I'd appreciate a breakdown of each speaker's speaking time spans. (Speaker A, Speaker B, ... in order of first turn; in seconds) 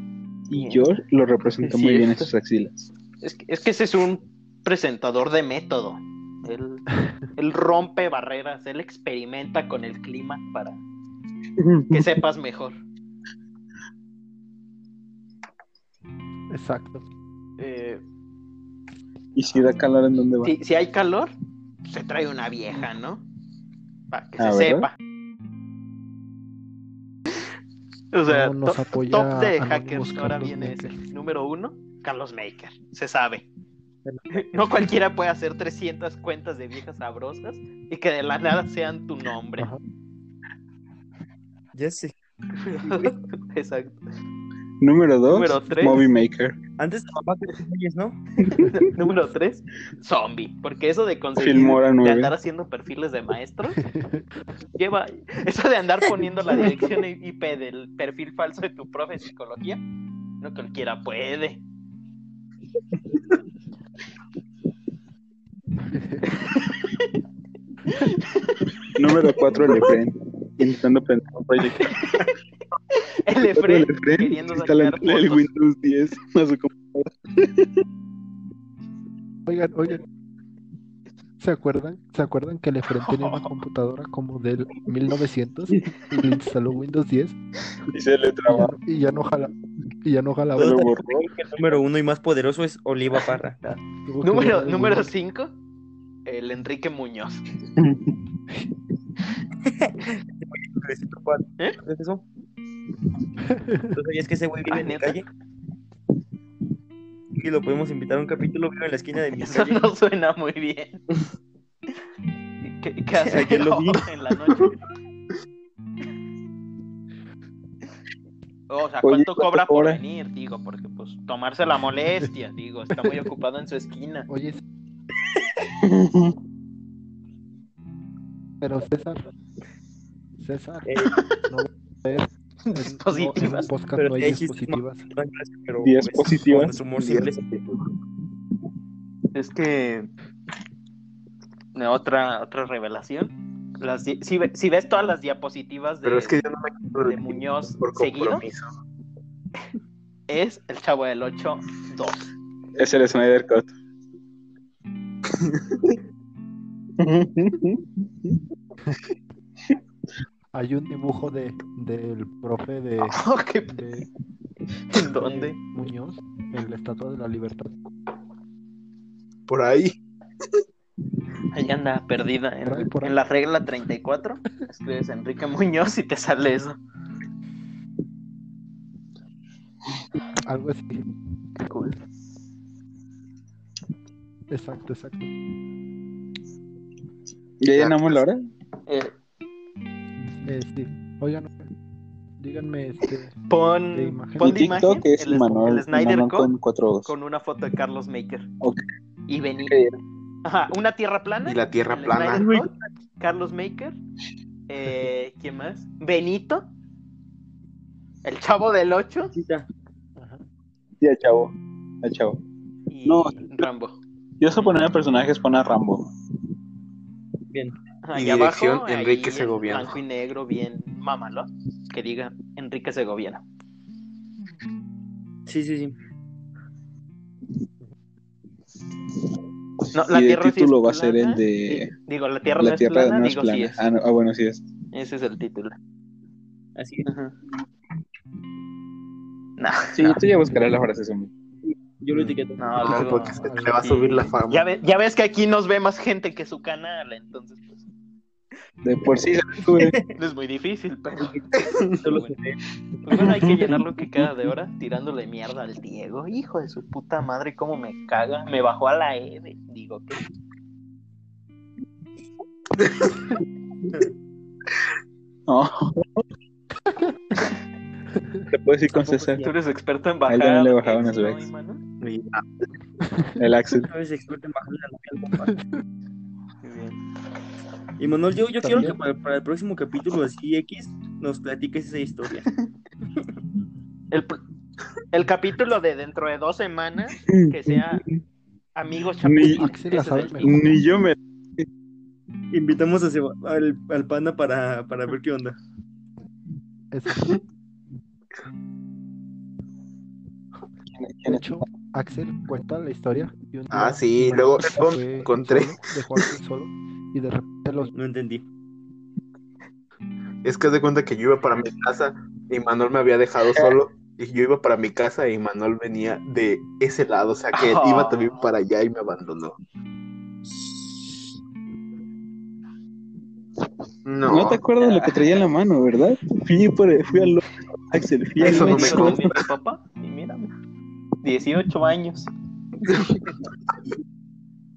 Speaker A: 0.5-2.9, 11.6-12.1, 19.3-20.5, 24.4-24.9, 44.8-46.6, 51.4-52.3, 68.9-72.2, 73.5-77.7, 87.9-88.8, 90.6-91.3, 97.8-98.1, 119.0-120.0, 125.8-126.3, 135.8-136.8, 152.8-153.7, 157.0-158.3, 187.6-188.4, 194.4-197.1, 199.6-199.9, 211.0-212.4, 213.0-213.7, 214.4-216.1, 230.1-231.9, 232.6-234.7, 239.9-241.3, 248.8-250.0, 253.1-253.8, 265.5-266.2, 268.5-269.4, 270.3-271.5, 273.3-273.9, 287.3-288.2, 289.2-289.7, 290.4-291.2, 300.9-301.5, 324.3-329.2
Speaker B: 0.5-1.0, 1.6-2.3, 3.2-10.8, 11.9-12.8, 17.6-18.0, 20.4-21.3, 21.9-23.2, 24.1-24.9, 28.1-33.5, 34.3-39.7, 42.6-44.0, 45.3-46.0, 48.7-53.8, 54.7-59.8, 60.4-61.6, 66.2-67.0, 67.8-68.7, 71.8-72.3, 72.9-75.4, 83.0-83.5, 93.6-95.5, 96.2-97.4, 104.7-105.2, 109.3-111.0, 112.6-114.8, 118.7-124.3, 132.7-133.7, 139.3-140.1, 141.7-146.4, 147.0-148.4, 150.3-152.3, 163.0-163.8, 164.9-165.6, 171.5-176.8, 181.6-182.0, 188.9-189.1, 193.5-196.5, 197.1-198.5, 199.3-199.8, 200.4-204.0, 204.7-206.7, 208.2-209.3, 212.9-214.0, 218.0-223.4, 229.9-233.8, 234.9-235.8, 237.1-237.3, 239.6-240.2, 242.6-247.7, 250.2-251.4, 252.1-252.3, 253.1-260.2, 269.4-271.8, 276.6-277.0, 284.1-284.4, 285.1-288.1, 288.7-290.7, 317.5-318.4, 328.4-330.5, 331.2-332.3
Speaker C: 16.5-17.0, 28.3-31.0, 53.9-54.2, 79.5-80.0, 81.4-87.4, 88.5-90.9, 94.0-95.1, 103.5-103.9, 124.3-124.6, 128.6-129.2, 130.4-135.1, 160.5-164.1, 165.2-167.7, 172.6-173.2, 180.4-181.1, 184.5-185.3, 190.4-191.7, 192.4-193.4, 193.9-194.8, 210.2-210.4, 243.2-244.3, 278.6-279.0, 289.4-290.6, 296.9-297.4, 301.2-307.9
Speaker D: 34.0-34.9, 41.7-42.1, 42.7-43.1, 46.8-48.2, 90.6-93.6, 99.7-102.2, 103.9-105.3, 107.3-109.9, 113.2-114.0, 130.8-131.1, 133.9-137.4, 209.3-209.7, 225.5-225.9, 236.8-237.1, 241.7-243.1, 249.7-250.1, 251.9-252.6, 269.0-269.5, 273.8-275.6, 278.0-282.5, 292.5-295.6, 307.9-308.4, 320.5-321.1
Speaker E: 136.9-137.8, 146.0-148.7, 155.4-155.8, 169.5-170.0, 201.4-202.7, 218.1-220.0, 242.8-244.6, 251.5-252.0, 262.8-263.1, 272.0-272.4, 303.7-306.2, 310.4-319.6, 324.1-324.7, 328.4-329.4, 332.8-333.4